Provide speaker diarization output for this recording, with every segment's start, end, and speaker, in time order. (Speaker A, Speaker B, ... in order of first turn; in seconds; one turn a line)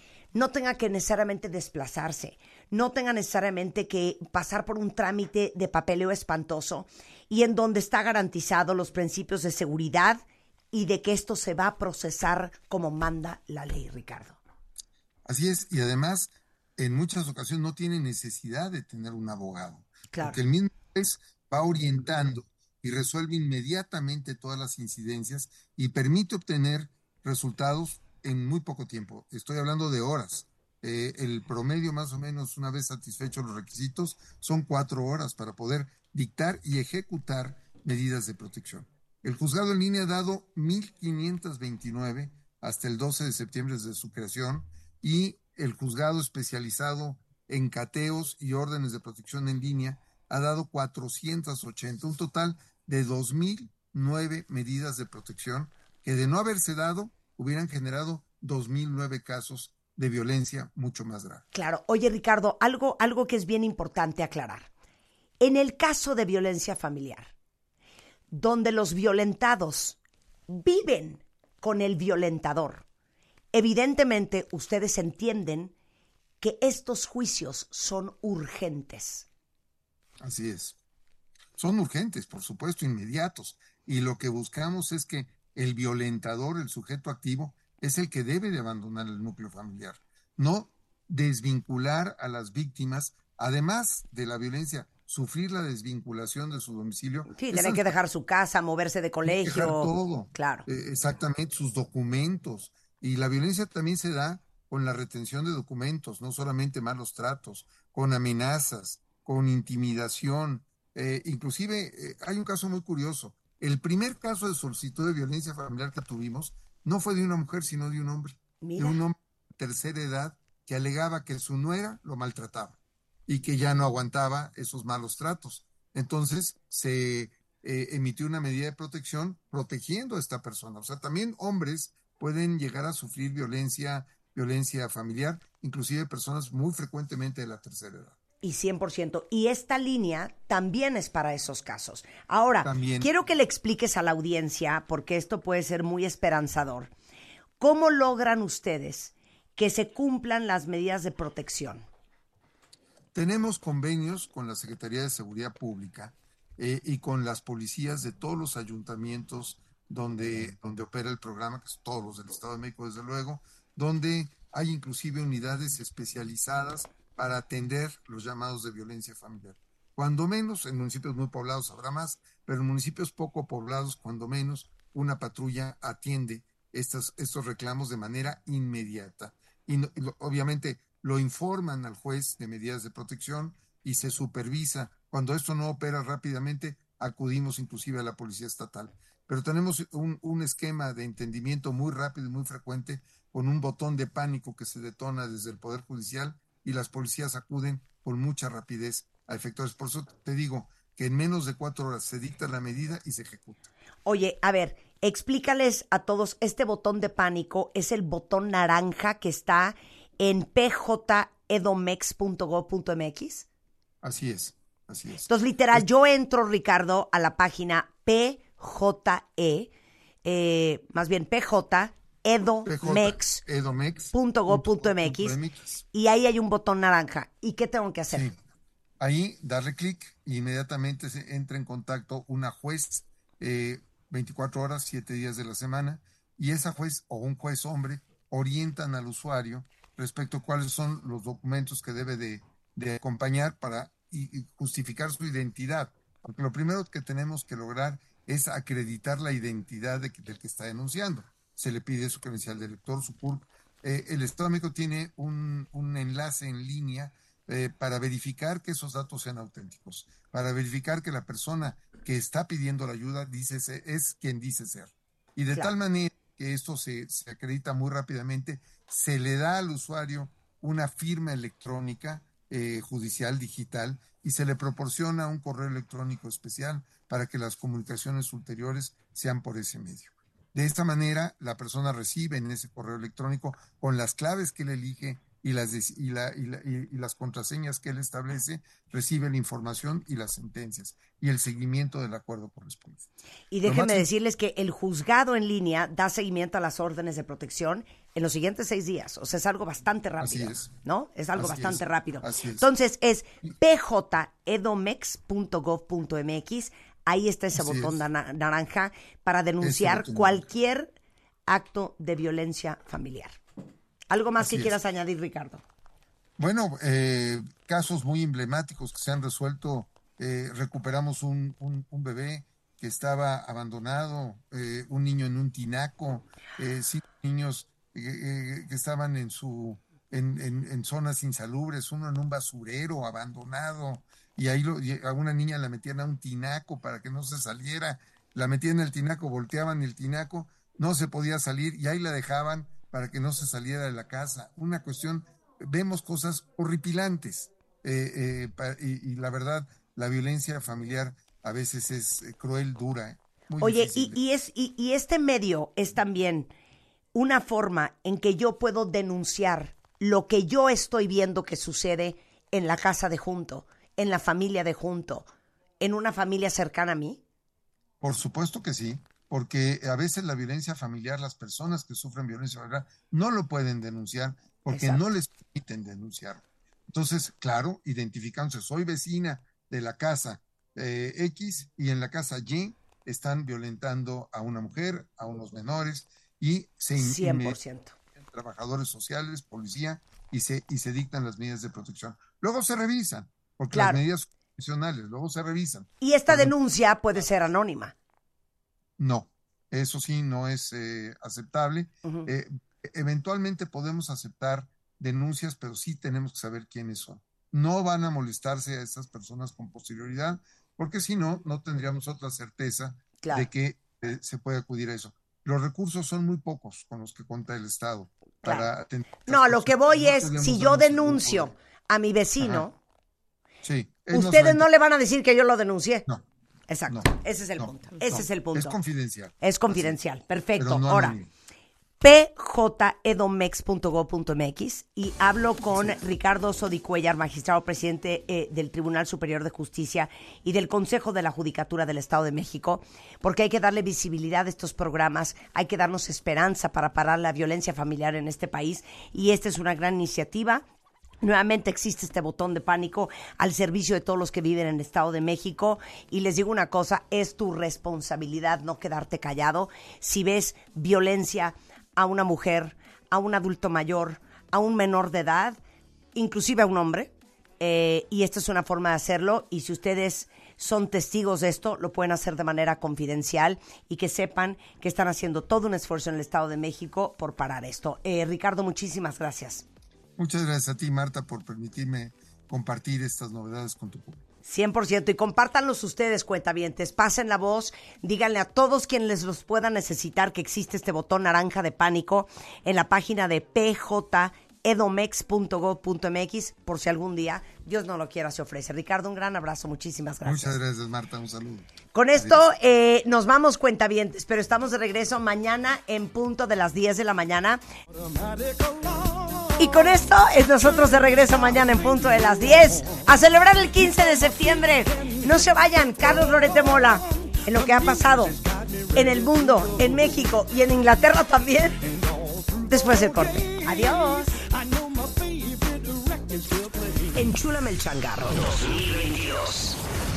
Speaker A: 0.3-14.4
Speaker B: 15.2-61.5
Speaker A: 20.1-20.4
Speaker A: 61.5-64.7
Speaker A: 65.4-67.3
Speaker A: 68.3-72.8
Speaker A: 73.5-75.7
Speaker A: 76.4-79.2
Speaker B: 80.2-80.8
Speaker B: 81.6-97.9
Speaker A: 97.3-100.7
Speaker B: 99.2-138.2
Speaker A: 118.6-119.0
Speaker A: 138.4-146.9
Speaker B: 142.6-143.1
Speaker A: 147.6-151.8
Speaker B: 153.1-203.7
Speaker A: 204.1-213.4
Speaker B: 214.0-215.8
Speaker A: 215.2-219.7
Speaker A: 220.2-223.4
Speaker B: 222.7-225.8
Speaker A: 224.1-225.4
Speaker A: 225.9-228.3
Speaker B: 228.1-228.4
Speaker B: 229.0-293.1
Speaker A: 293.5-310.9
Speaker B: 293.6-294.1
Speaker B: 300.2-300.7
Speaker B: 301.3-302.7
Speaker B: 307.5-308.0
Speaker B: 309.6-310.4
Speaker A: 311.5-313.4
Speaker A: 314.1-315.6
Speaker B: 314.4-314.7
Speaker B: 316.4-354.2
Speaker A: 353.6-356.5
Speaker A: 357.1-365.3
Speaker A: 365.8-367.2
Speaker B: 368.0-387.6
Speaker A: 374.7-375.0
Speaker A: 386.9-387.9
Speaker B: 388.2-396.5
Speaker A: 393.7-394.0
Speaker A: 396.0-397.9
Speaker B: 399.0-421.5
Speaker A: 413.2-413.5
Speaker A: 418.4-418.7
Speaker A: 419.2-422.7
Speaker B: 422.4-422.6
Speaker B: 423.6-424.7
Speaker A: 424.1-426.0
Speaker A: 426.7-428.8
Speaker B: 426.9-430.0
Speaker A: 429.4-431.2
Speaker B: 430.6-431.3
Speaker A: 432.0-450.6
Speaker A: 451.2-465.6
Speaker A: 466.1-479.6
Speaker B: 480.2-484.2
Speaker A: 484.4-500.6
Speaker B: 500.2-502.4
Speaker A: 501.9-507.6
Speaker A: 509.6-518.4
Speaker A: 518.9-521.8
Speaker A: 522.7-524.4
Speaker A: 527.1-529.8